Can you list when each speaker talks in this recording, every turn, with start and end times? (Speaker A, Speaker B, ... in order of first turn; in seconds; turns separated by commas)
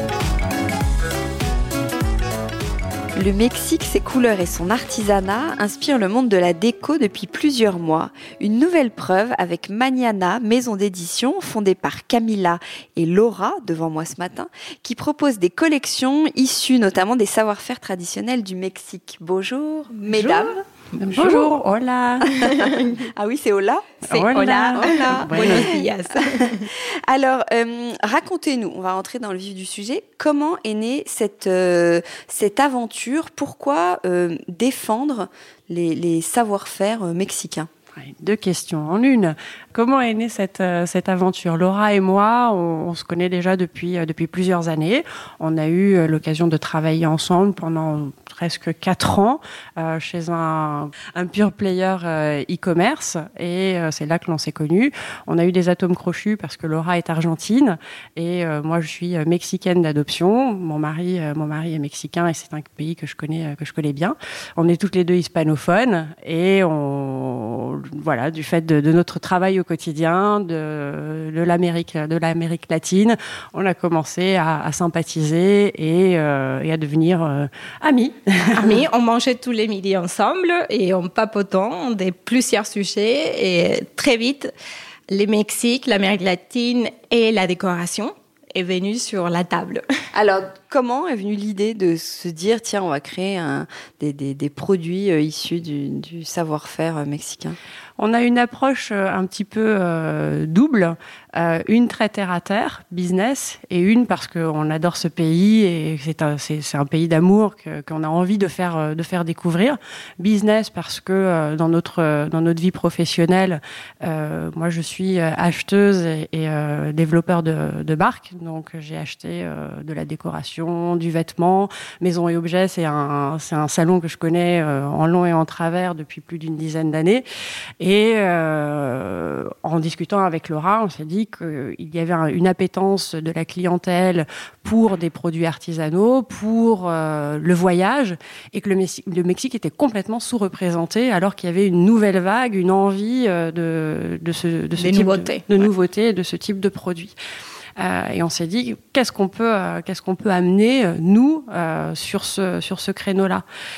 Speaker A: 3.2-20.6, Speaker B: 20.1-20.5, Speaker B: 21.0-22.7, Speaker A: 23.1-25.7, Speaker B: 24.1-25.7, Speaker C: 24.3-26.7, Speaker A: 26.7-37.7, Speaker B: 38.0-78.8, Speaker C: 78.5-84.5, Speaker C: 85.1-89.8, Speaker A: 90.1-97.6, Speaker B: 98.0-127.2, Speaker B: 127.8-147.2, Speaker C: 144.8-145.7, Speaker B: 147.8-153.4